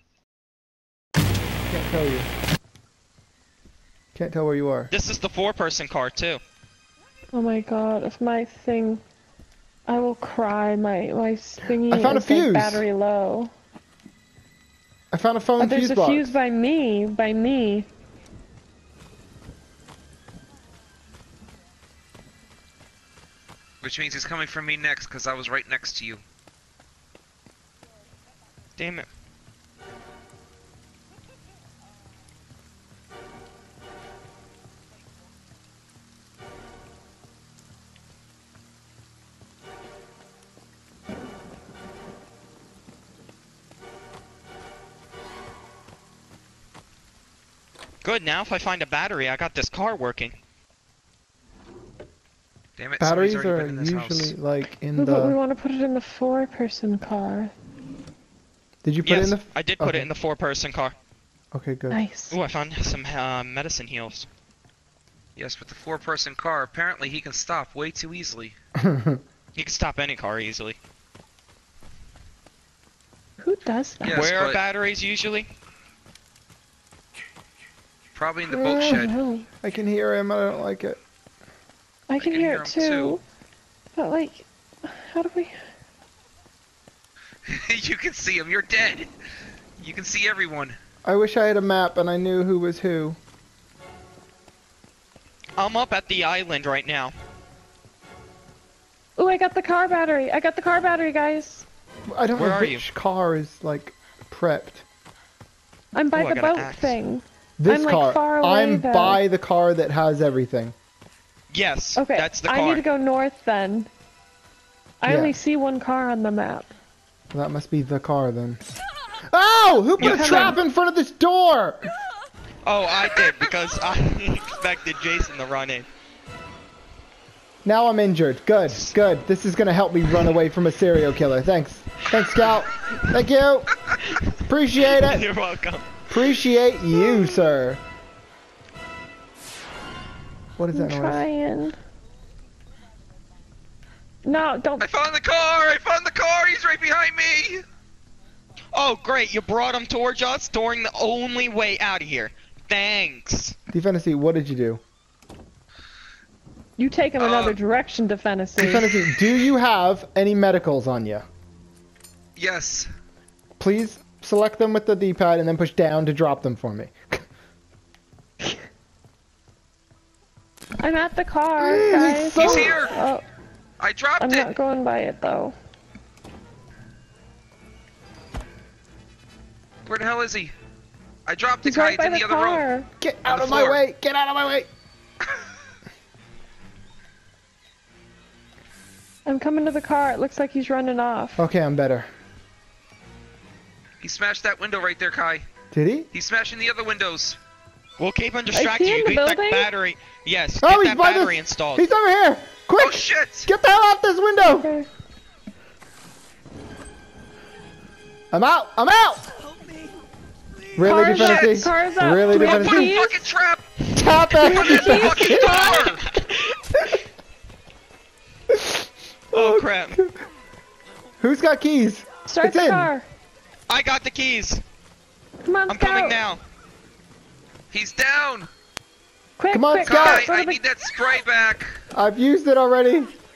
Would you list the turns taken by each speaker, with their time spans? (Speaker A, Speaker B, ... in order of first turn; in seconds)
Speaker A: 1.7-2.3, 4.1-4.9, 11.8-12.8, 15.1-16.3, 53.0-55.4, 58.8-60.1, 61.5-62.0, 68.8-69.2, 78.6-79.0, 79.6-81.0, 91.0-93.2, 102.1-104.8, 107.6-110.7, 115.0-115.4, 117.3-118.6, 119.3-121.9, 127.6-133.7, 134.4-135.3, 136.1-137.8, 140.6-141.2, 153.7-154.8, 158.6-161.2, 163.6-167.2, 171.6-172.8, 183.0-184.7, 191.4-192.1, 195.7-196.1, 200.6-204.7, 208.3-209.2, 210.8-213.1, 213.9-215.7, 219.3-220.1, 221.2-222.9, 229.5-230.3, 231.9-233.1
Speaker B: 4.9-6.4, 28.8-29.1, 48.0-50.3, 59.0-60.9, 62.3-64.3, 69.5-70.8, 74.1-75.5, 95.6-97.1, 102.3-102.8, 106.1-107.0, 111.5-112.8, 120.0-120.6, 122.6-125.9, 132.1-132.4, 134.9-136.0, 148.7-153.5, 198.0-201.8, 215.4-216.4, 219.3-220.0, 223.7-224.6, 225.7-226.4
Speaker C: 7.3-9.0, 9.9-13.5, 15.6-17.9, 55.0-57.5, 61.9-62.3, 73.4-74.3, 78.7-79.5, 82.1-83.2, 83.9-85.6, 99.2-101.6, 105.9-109.2, 112.0-113.9, 115.0-116.7, 120.0-120.6, 140.7-141.8, 144.2-144.9, 156.8-159.0, 170.8-173.2, 174.2-175.5, 181.6-182.9, 189.2-191.4, 198.5-199.7, 204.4-204.9, 210.8-213.3, 214.4-216.0, 222.2-223.1, 225.4-226.2, 229.4-230.6
Speaker D: 23.8-26.2, 52.8-54.3, 65.4-68.5, 74.0-74.6, 78.1-79.1, 82.1-83.2, 87.5-89.1, 89.8-90.8, 144.8-147.6, 157.2-157.6, 162.4-162.9, 172.4-172.9, 173.8-174.5, 179.8-180.5, 181.2-182.7, 183.3-183.8, 194.0-195.4, 196.1-197.4, 202.8-203.5, 210.9-211.7, 212.3-216.0, 227.7-228.5, 229.8-231.7